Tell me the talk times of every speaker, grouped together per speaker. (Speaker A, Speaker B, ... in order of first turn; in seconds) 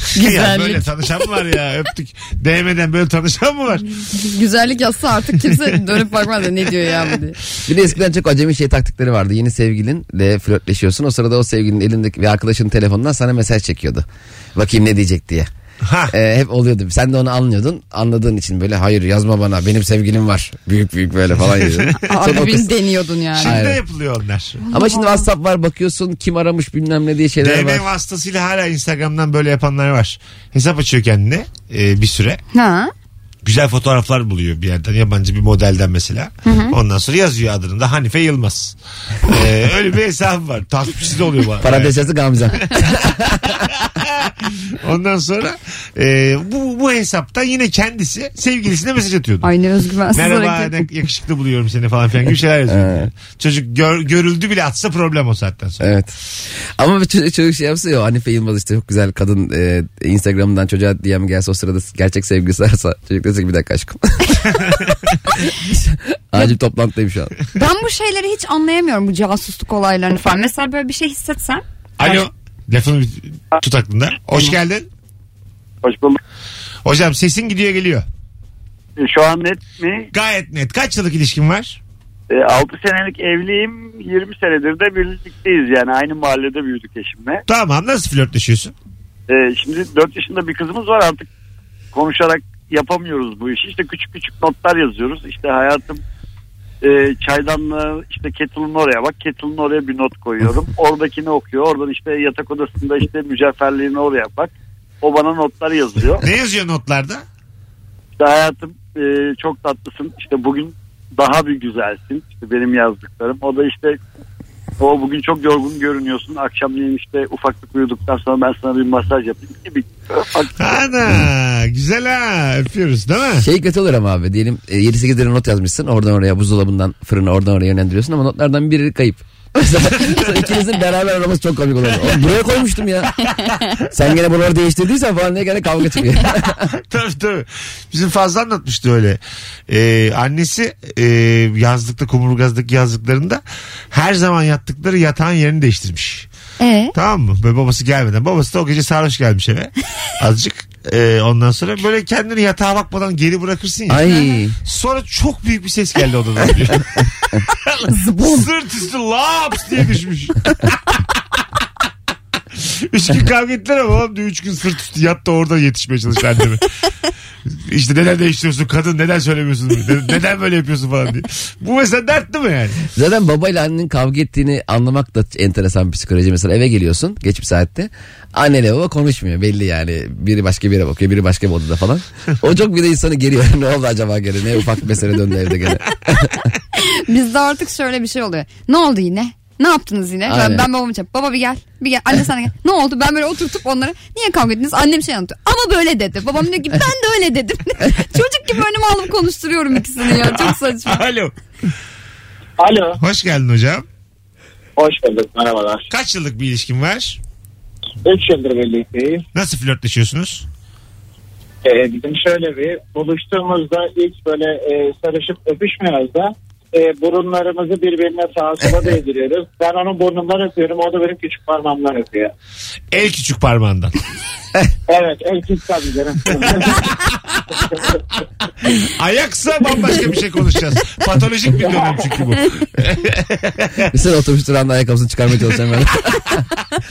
Speaker A: 0.1-0.9, 4.1-7.4, 22.1-23.7, 24.6-25.2, 32.5-32.9, 36.5-36.8, 49.4-50.8, 67.5-72.2, 146.6-146.9, 154.1-154.4, 157.9-158.4, 186.8-201.0
Speaker B: 0.1-3.9, 15.8-16.1, 21.5-22.5, 23.4-24.6, 27.4-32.4, 33.4-42.0, 43.6-49.5, 50.1-55.9, 72.0-74.9, 76.8-78.1, 80.1-81.8, 87.5-88.7, 106.2-107.2, 120.6-123.5, 130.1-130.4, 136.8-146.3, 146.9-154.1, 154.6-161.1, 162.6-166.7, 167.5-172.8, 200.2-201.3, 203.0-203.8, 205.9-207.2, 209.3-210.5, 222.9-224.0, 226.5-227.4, 228.7-233.9
Speaker C: 7.7-15.5, 16.1-22.7, 23.4-23.8, 24.7-27.9, 41.6-43.6, 52.7-53.1, 55.8-64.4, 65.6-67.3, 123.4-133.2, 133.9-136.7, 153.9-154.6, 172.9-186.4, 190.3-190.7, 233.9-236.4
Speaker D: 75.8-76.2, 79.0-80.1, 82.3-87.4, 89.3-91.3, 91.9-96.0, 96.8-106.2, 108.2-114.0, 114.8-120.7
Speaker E: 202.6-203.0, 204.8-205.9, 208.0-209.2, 211.6-222.3, 224.9-226.8